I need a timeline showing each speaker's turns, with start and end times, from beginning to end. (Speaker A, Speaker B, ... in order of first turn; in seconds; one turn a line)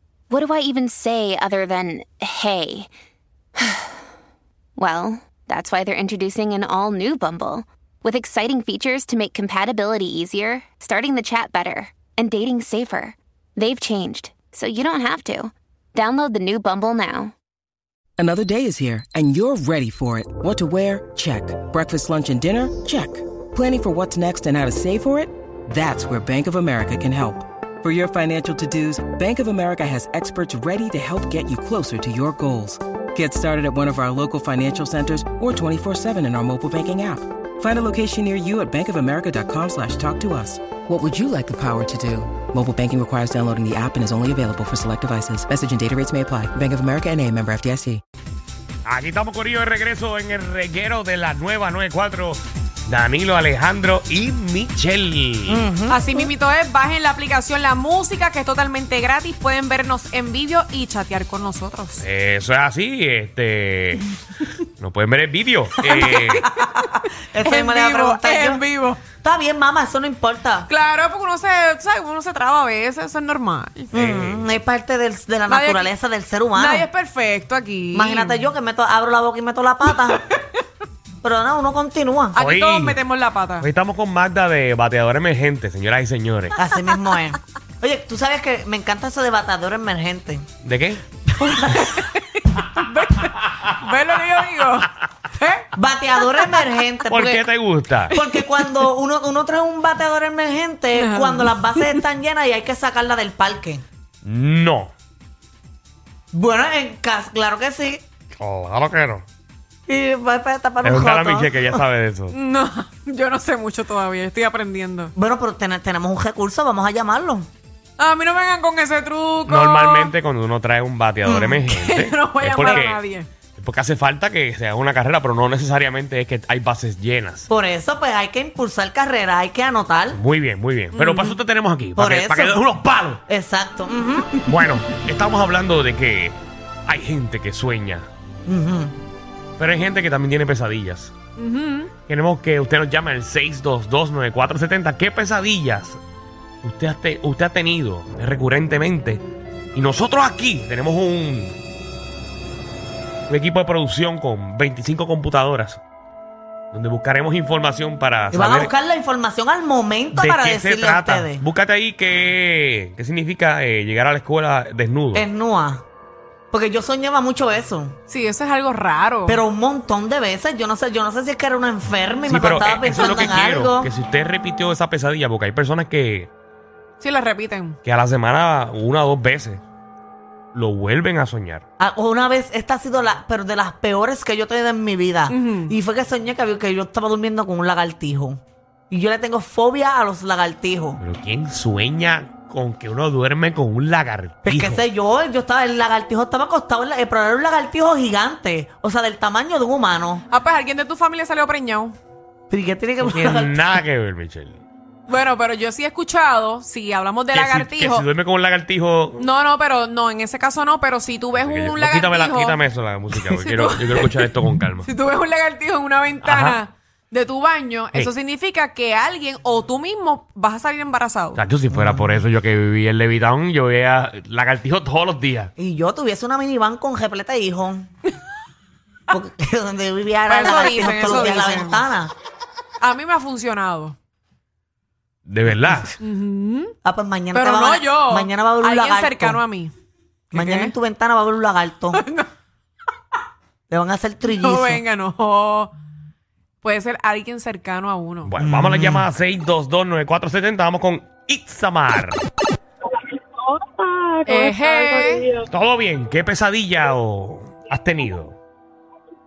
Speaker A: 0.3-2.9
Speaker A: 3.6-3.9
Speaker A: 4.8-17.3
Speaker B: 18.2-48.0
Speaker C: 48.9-55.7
Speaker D: 55.5-56.3
Speaker E: 55.9-62.1
Speaker C: 62.0-64.1
Speaker C: 64.8-66.4
Speaker E: 65.8-69.0
Speaker D: 67.3-68.6
Speaker D: 69.2-70.7
Speaker E: 70.7-73.9
Speaker D: 73.9-76.9
Speaker C: 73.9-74.5
Speaker E: 75.5-75.9
Speaker E: 76.5-78.5
Speaker D: 77.9-80.2
Speaker E: 79.8-80.5
Speaker D: 81.2-82.4
Speaker E: 82.3-83.7
Speaker C: 82.4-83.0
Speaker C: 83.6-86.6
Speaker D: 86.6-90.5
Speaker C: 90.6-91.0
Speaker D: 91.3-92.0
Speaker E: 91.8-95.7
Speaker D: 95.8-97.5
Speaker E: 96.2-96.6
Speaker C: 97.1-98.2
Speaker E: 98.1-98.5
Speaker D: 98.1-103.8
Speaker E: 100.9-102.0
Speaker C: 104.2-104.9
Speaker D: 106.3-108.0
Speaker C: 108.4-109.2
Speaker D: 109.9-111.8
Speaker C: 110.8-112.3
Speaker E: 112.3-115.1
Speaker D: 115.2-117.5
Speaker E: 118.0-120.1
Speaker C: 119.5-123.0
Speaker D: 121.2-121.6
Speaker E: 121.7-123.3
Speaker C: 123.6-127.5
Speaker D: 127.5-130.2
Speaker C: 130.1-133.2
Speaker E: 130.9-131.4
Speaker D: 132.0-132.6
Speaker D: 133.3-134.3
Speaker C: 134.4-136.4
Speaker C: 136.9-138.1
Speaker D: 138.5-139.0
Speaker C: 139.6-141.1
Speaker E: 141.4-141.9
Speaker C: 142.1-146.0
Speaker C: 146.6-149.2
Speaker C: 149.8-151.6
Speaker C: 153.3-155.8
Speaker C: 156.7-158.7
Speaker D: 158.3-161.4
Speaker C: 160.1-165.3
Speaker D: 165.1-165.8
Speaker D: 166.5-168.0
Speaker E: 168.1-169.4
Speaker D: 169.3-173.9
Speaker C: 172.3-176.3
Speaker E: 177.0-177.8
Speaker C: 177.8-179.6
Speaker C: 180.5-181.7
Speaker D: 181.8-191.0
Speaker E: 185.3-185.7
Speaker C: 191.0-194.8
Speaker D: 194.4-200.2
Speaker E: 200.3-202.0
Speaker D: 202.5-203.6
Speaker C: 203.0-204.6
Speaker E: 205.1-208.1
Speaker C: 207.3-209.2
Speaker E: 209.2-212.6
Speaker C: 211.4-214.9
Speaker E: 213.1-221.4
Speaker C: 216.2-216.6
Speaker C: 221.4-225.5
Speaker D: 221.7-222.2
Speaker D: 225.6-227.9
Speaker D: 229.1-232.1
Speaker E: 230.3-231.8
Speaker E: 232.8-234.0
Speaker C: 235.2-235.9
Speaker D: 235.6-235.8
Speaker E: 236.0-236.7
Speaker D: 236.8-239.4
Speaker E: 237.3-239.7
Speaker E: 240.3-240.7
Speaker D: 240.3-242.0
Speaker E: 241.9-242.3
Speaker D: 243.7-244.8
Speaker E: 244.2-245.7
Speaker E: 246.6-248.3
Speaker C: 248.3-252.2
Speaker D: 248.4-249.1
Speaker F: 252.9-255.5
Speaker E: 254.3-255.3
Speaker C: 255.5-258.4